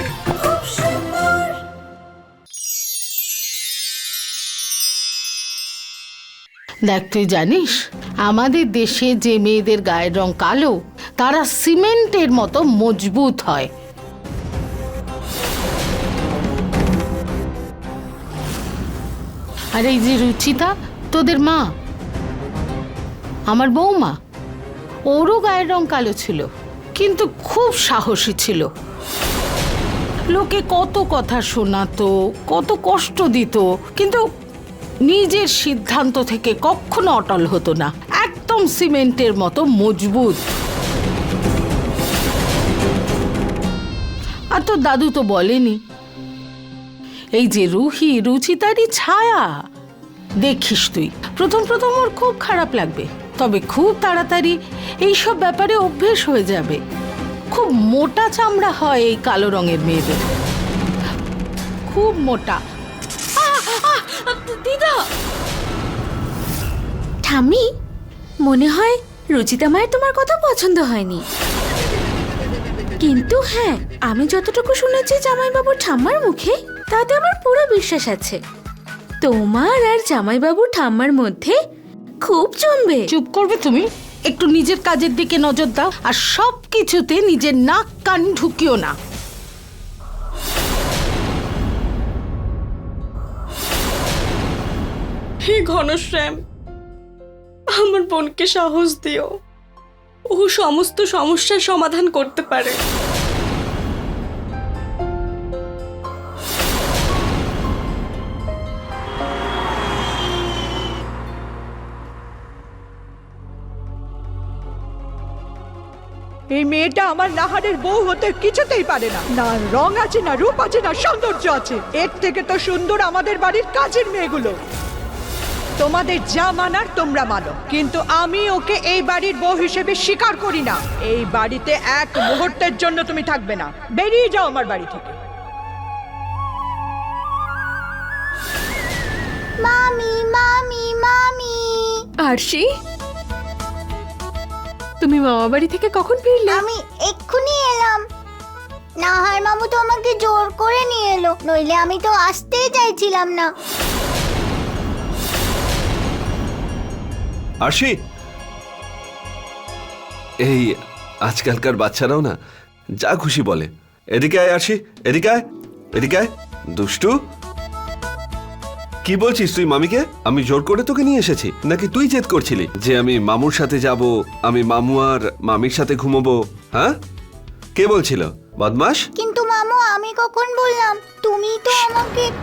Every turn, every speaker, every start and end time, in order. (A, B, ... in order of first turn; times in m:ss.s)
0:06.8-0:13.7 A
0:19.7-0:21.7 A
0:23.5-0:24.2 A
0:25.1-0:28.7 A
0:30.3-0:34.2 A
0:35.0-0:40.4 A
0:44.5-0:45.8 A
0:47.3-0:49.5 A
0:50.4-0:56.8 A
0:57.5-1:00.2 A
1:01.9-1:02.6 A
1:03.6-1:04.9 B
1:07.2-1:07.6 B
1:08.4-1:11.2 B
1:13.0-1:18.4 B
1:19.2-1:21.6 B
1:22.2-1:23.0 B
1:23.1-1:28.9 A
1:35.4-1:36.4 C
1:37.7-1:39.3 C
1:40.3-1:42.8 C
1:56.5-2:04.6 D
2:05.8-2:15.1 D
2:19.6-2:22.0 E
2:22.2-2:22.6 F
2:25.0-2:26.6 F
2:26.5-2:28.0 E
2:29.0-2:33.5 E
2:37.6-2:37.9 G
2:40.4-2:42.3 G
2:43.0-2:45.4 G
2:45.9-2:47.2 G
2:49.0-2:57.0 G
2:57.8-2:59.0 G
2:59.2-3:02.3 E